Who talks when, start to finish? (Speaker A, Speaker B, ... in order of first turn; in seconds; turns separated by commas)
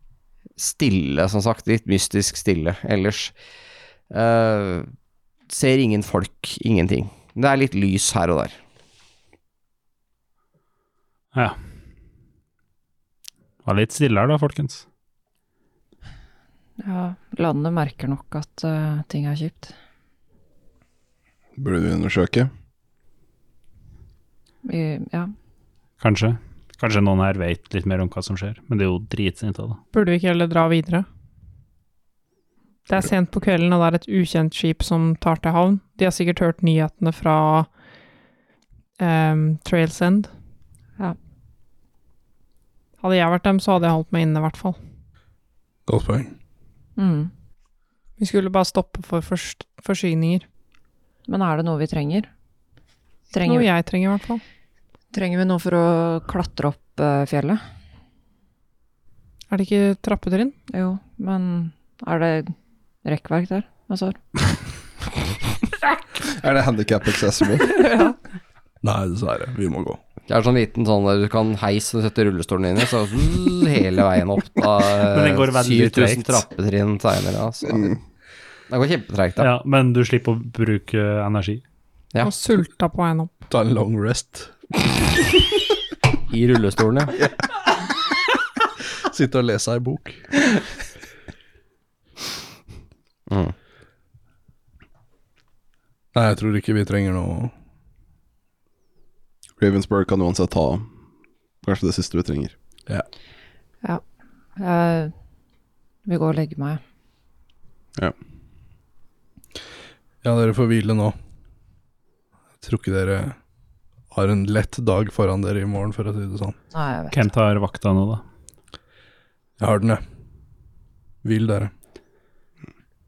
Speaker A: 0.6-3.3, Speaker A: 4.1-4.9, Speaker A: 5.5-8.6, Speaker B: 13.6-14.8, Speaker C: 16.8-19.7, Speaker D: 21.6-22.5, Speaker C: 24.6-25.3, Speaker B: 26.0-29.8, Speaker E: 29.9-31.0, Speaker E: 32.9-37.7, Speaker E: 39.0-40.3, Speaker E: 43.0-44.8, Speaker F: 45.9-46.3, Speaker C: 47.0-47.3, Speaker E: 48.2-50.4, Speaker C: 51.3-52.3, Speaker C: 53.3-53.7, Speaker E: 53.4-54.4, Speaker C: 55.1-57.6, Speaker E: 59.5-60.5, Speaker C: 60.7-62.5, Speaker C: 63.0-64.2, Speaker D: 66.1-67.9, Speaker C: 67.8-68.2, Speaker F: 68.8-70.0, Speaker A: 70.3-78.0, Speaker B: 75.1-76.4, Speaker A: 78.7-79.5, Speaker B: 79.4-81.6, Speaker E: 82.2-83.3, Speaker F: 83.5-84.5, Speaker A: 86.3-87.1, Speaker F: 89.1-90.2, Speaker A: 93.3-93.5, Speaker F: 96.1-97.5, Speaker D: 99.6-100.9, Speaker D: 101.6-102.5, Speaker C: 104.6-105.1, Speaker C: 106.0-106.8, Speaker F: 110.2-111.1, Speaker F: 112.6-113.3, Speaker F: 114.1-116.5, Speaker C: 116.7-117.1, Speaker B: 117.1-118.2, Speaker F: 119.6-120.0, Speaker F: 121.2-121.7